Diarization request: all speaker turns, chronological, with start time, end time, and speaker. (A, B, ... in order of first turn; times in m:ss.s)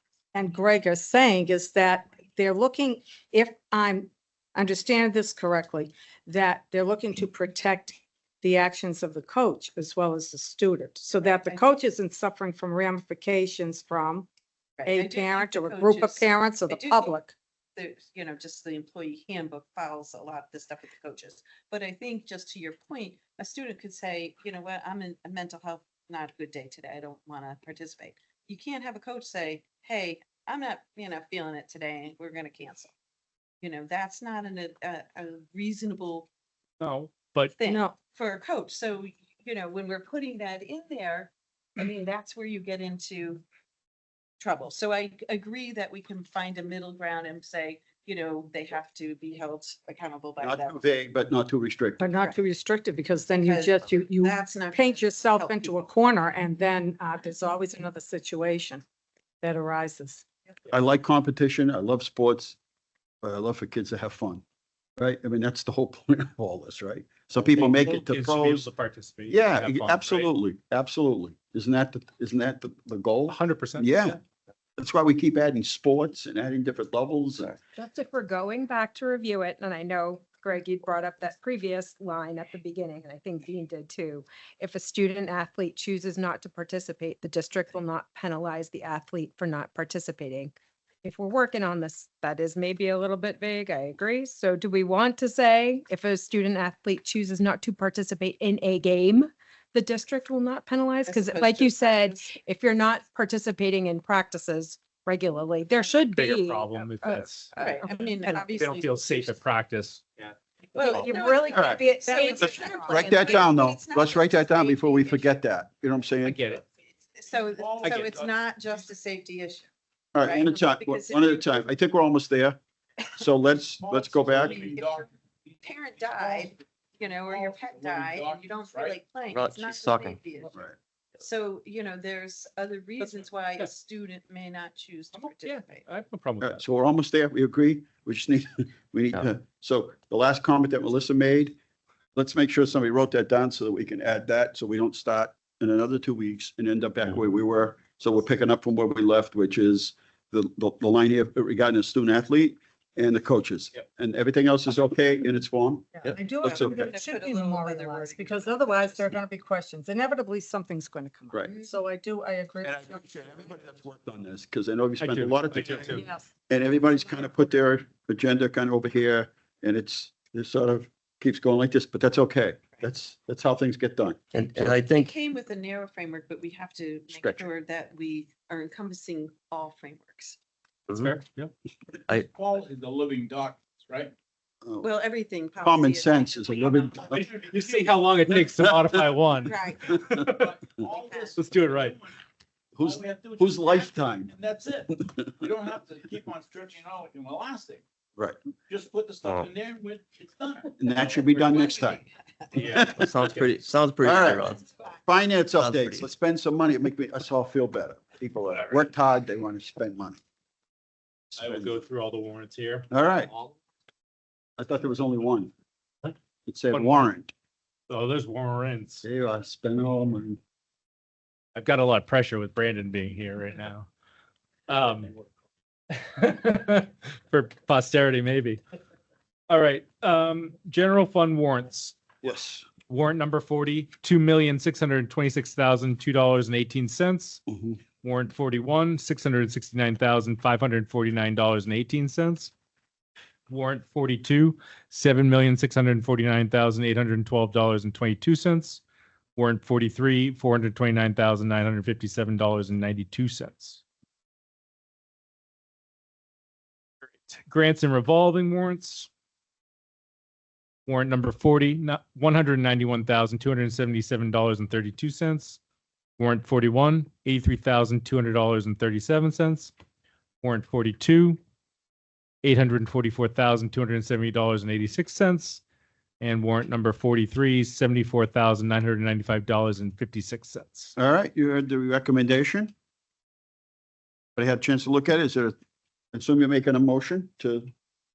0:00.3-0:14.3 A
0:11.2-0:11.6 B
0:14.8-0:17.1 B
0:14.9-0:17.4 A
0:17.8-0:32.9 B
0:33.6-0:36.3 B
0:36.8-0:37.6 C
0:37.5-0:43.4 B
0:37.6-0:38.0 A
0:44.4-0:50.8 B
0:50.4-0:52.0 D
0:52.0-0:58.8 A
0:53.3-0:55.9 B
0:59.4-1:00.2 A
1:00.7-1:02.6 D
1:03.2-1:04.4 D
1:05.0-1:08.7 D
1:07.4-1:10.3 C
1:09.3-1:14.2 D
1:13.3-1:14.2 C
1:14.8-1:17.6 D
1:17.8-1:30.5 E
1:31.0-1:48.5 E
1:41.0-1:42.3 B
1:45.8-1:47.6 C
1:47.5-1:49.3 B
1:48.6-1:50.4 C
1:50.8-1:53.5 E
1:50.8-1:55.3 B
1:51.5-1:51.9 D
1:52.4-1:56.5 D
1:56.2-1:56.6 C
1:57.2-1:59.7 B
1:57.4-1:58.3 F
2:00.1-2:02.6 D
2:00.2-2:01.6 B
2:03.2-2:04.8 D
2:03.8-2:06.5 F
2:05.6-2:10.6 B
2:07.3-2:09.0 F
2:09.3-2:10.2 G
2:11.2-2:15.9 B
2:13.0-2:13.7 C
2:15.2-2:16.6 C
2:16.4-2:21.6 D
2:22.2-2:36.9 D
2:36.0-2:43.0 A
2:36.4-2:39.1 B
2:42.6-2:54.2 D
2:45.0-2:46.0 C
2:45.9-2:46.3 A
2:54.3-2:55.1 G
2:54.6-3:00.4 B
2:57.1-2:57.5 G
3:00.9-3:01.5 C
3:02.2-3:04.1 F
3:04.6-3:04.9 D
3:04.8-3:06.8 B
3:05.6-3:07.3 D
3:06.8-3:07.9 F
3:07.1-3:10.5 C
3:09.4-3:09.8 B
3:10.4-3:12.1 F
3:11.1-3:11.4 B
3:11.4-3:12.0 C
3:12.8-3:14.3 D
3:12.8-3:17.8 F
3:15.1-3:15.4 D
3:18.7-3:21.7 F
3:19.2-3:19.5 G
3:20.8-3:22.0 D
3:21.8-3:22.0 B
3:22.6-3:23.4 C
3:22.6-3:23.1 D
3:23.0-3:24.7 G
3:24.0-3:30.2 D
3:25.6-3:26.1 G
3:28.5-3:28.8 C
3:31.3-3:31.8 D
3:31.4-3:33.6 C
3:32.9-3:33.3 D
3:34.6-3:35.5 D
3:36.5-3:37.3 D
3:36.7-3:37.0 C
3:37.9-3:39.0 C
3:39.0-3:40.4 D
3:41.6-3:43.9 C
3:44.7-3:45.1 C
3:45.9-3:48.6 C
3:49.5-3:52.0 C
3:52.2-3:52.7 D
3:52.9-4:02.5 C
3:57.5-3:57.8 D
4:03.5-4:08.8 C
4:09.4-4:13.8 C
4:17.0-4:19.1 C
4:20.9-4:25.6 C
4:26.2-4:29.7 C
4:30.4-4:31.4 C
4:32.4-4:35.6 C
4:36.2-4:40.9 C
4:41.0-4:42.7 D
4:44.4-4:45.6 D
4:46.1-4:47.7 D